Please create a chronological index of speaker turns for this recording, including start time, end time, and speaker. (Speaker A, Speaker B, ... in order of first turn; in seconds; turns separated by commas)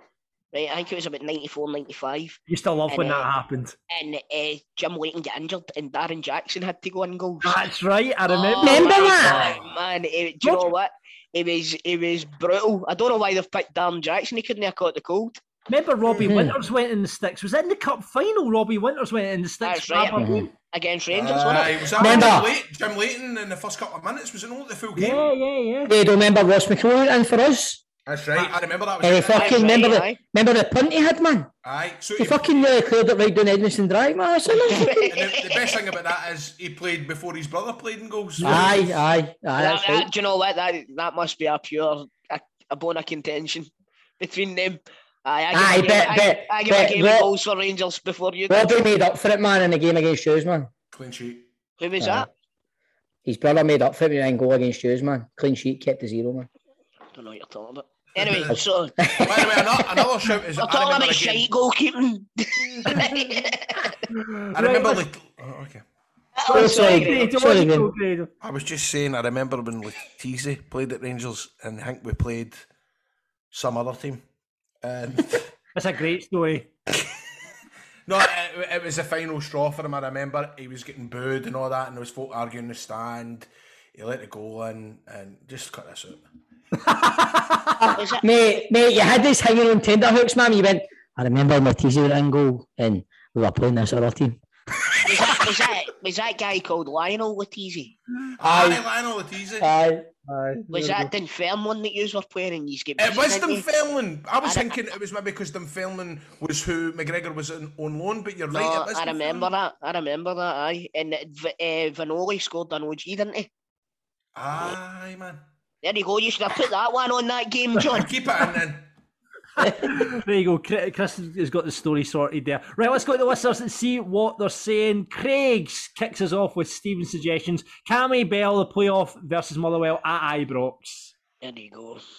Speaker A: 0.5-3.3, Speaker B: 2.5-3.8, Speaker A: 3.9-7.6, Speaker B: 7.4-9.3, Speaker A: 8.3-15.4, Speaker C: 8.6-9.6, Speaker B: 15.7-20.5, Speaker C: 16.2-16.6, Speaker A: 19.6-22.3, Speaker C: 20.2-20.5, Speaker D: 21.1-25.3, Speaker C: 22.0-22.5, Speaker B: 25.0-25.9, Speaker C: 25.9-27.8, Speaker D: 28.1-29.9, Speaker C: 29.0-31.5, Speaker A: 29.3-30.2, Speaker D: 31.6-32.5, Speaker C: 32.2-35.1, Speaker A: 34.6-35.8, Speaker D: 35.1-39.0, Speaker B: 38.4-38.7, Speaker C: 38.4-40.1, Speaker A: 39.6-48.8, Speaker C: 45.5-47.3, Speaker C: 48.5-50.7, Speaker D: 50.9-51.5, Speaker A: 51.8-52.3, Speaker C: 52.0-52.3, Speaker C: 53.2-56.5, Speaker A: 57.1-59.0, Speaker D: 58.2-58.5, Speaker C: 58.5-59.9, Speaker D: 59.1-61.5, Speaker A: 60.6-63.9, Speaker B: 64.2-65.0, Speaker D: 64.5-65.8, Speaker A: 66.3-67.3, Speaker B: 66.5-68.3, Speaker C: 66.5-67.9, Speaker D: 68.4-72.6, Speaker D: 73.5-74.2, Speaker D: 74.8-75.5, Speaker B: 75.8-76.7, Speaker D: 78.1-86.2, Speaker B: 87.0-87.8, Speaker C: 87.8-94.4, Speaker A: 88.0-88.2, Speaker A: 95.0-98.0, Speaker D: 98.4-99.7, Speaker C: 98.4-98.8, Speaker C: 99.6-100.1, Speaker B: 100.3-101.0, Speaker A: 100.7-103.7, Speaker D: 103.0-109.5, Speaker A: 104.4-104.8, Speaker A: 108.5-113.5, Speaker D: 114.3-115.4, Speaker A: 115.8-118.1, Speaker D: 117.8-118.9, Speaker B: 119.6-131.1, Speaker A: 131.4-132.0